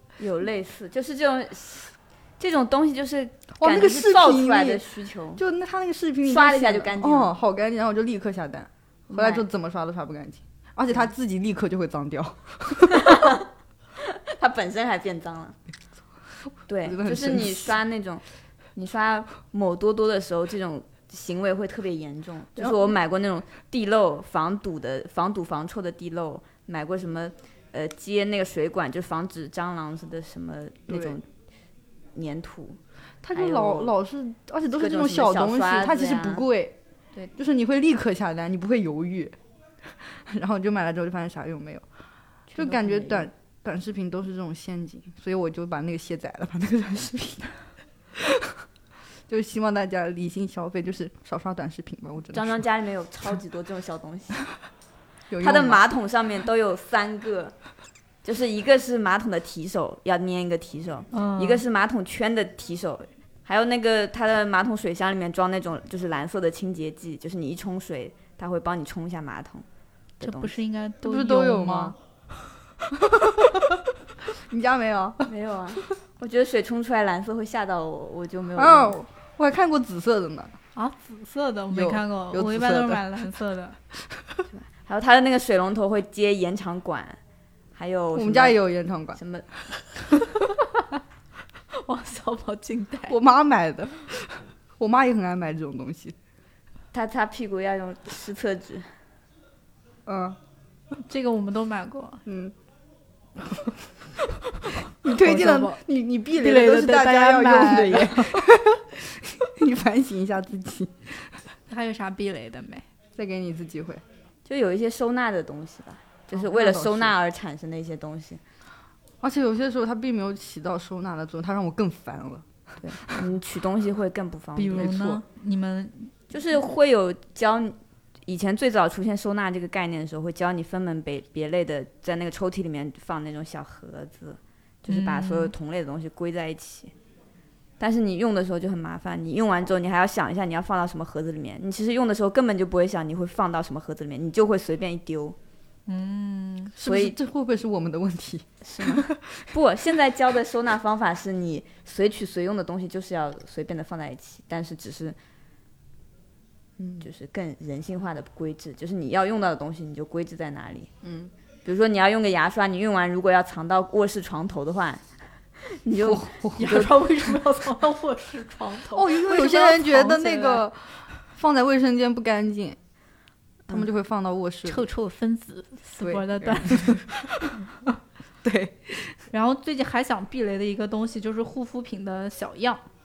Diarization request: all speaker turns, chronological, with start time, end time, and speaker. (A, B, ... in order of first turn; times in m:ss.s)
0:00.2-0:05.4 A
0:03.6-0:04.8 B
0:05.4-0:13.2 B
0:06.2-0:07.3 A
0:09.1-0:09.4 A
0:12.9-0:13.5 A
0:14.0-0:15.6 A
0:16.7-0:18.2 A
0:16.8-0:17.7 B
0:18.7-0:31.2 A
0:22.6-0:22.9 B
0:30.9-0:31.2 B
0:32.1-0:32.8 A
0:33.2-0:36.7 B
0:33.3-0:33.9 A
0:34.7-0:36.4 A
0:37.4-0:41.8 B
0:42.5-0:43.3 A
0:42.5-0:47.6 B
0:48.1-0:48.5 B
0:49.3-0:52.6 B
0:52.3-0:54.4 A
0:55.3-0:55.8 B
0:55.4-0:57.5 A
0:58.2-1:09.6 A
1:01.1-1:01.6 C
1:10.2-1:10.5 A
1:10.2-1:11.9 C
1:11.0-1:11.9 B
1:13.0-1:13.8 B
1:14.4-1:15.3 B
1:15.2-1:19.0 A
1:18.6-1:20.5 B
1:20.8-1:23.8 C
1:21.7-1:23.1 B
1:24.5-1:27.2 A
1:27.7-1:28.6 A
1:28.1-1:29.2 B
1:29.1-1:29.4 A
1:31.7-1:33.1 C
1:33.1-1:36.1 B
1:36.9-1:38.9 A
1:40.0-1:40.4 B
1:41.0-1:42.2 C
1:42.2-1:42.5 B
1:43.4-1:43.7 B
1:45.0-1:51.4 B
1:45.2-1:45.8 C
1:46.4-1:48.4 C
1:51.7-1:52.8 C
1:53.2-1:54.0 B
1:54.4-1:58.4 A
1:56.3-1:57.1 B
1:59.2-2:02.4 B
2:02.8-2:05.0 A
2:04.6-2:06.1 C
2:04.8-2:05.2 B
2:06.3-2:16.9 A
2:14.9-2:15.5 C
2:17.8-2:25.4 A
2:25.9-2:26.7 C
2:26.8-2:29.4 B
2:26.8-2:27.2 A
2:28.6-2:35.2 A
2:36.8-2:37.0 B
2:37.0-2:40.9 A
2:41.0-2:41.3 B
2:41.6-2:46.9 A
2:46.0-2:46.9 B
2:46.6-2:50.6 C
2:48.9-2:52.8 B
2:53.7-2:54.9 B
2:54.7-2:57.1 C
2:56.0-2:57.5 B
2:58.4-2:59.2 B
2:59.3-3:02.8 C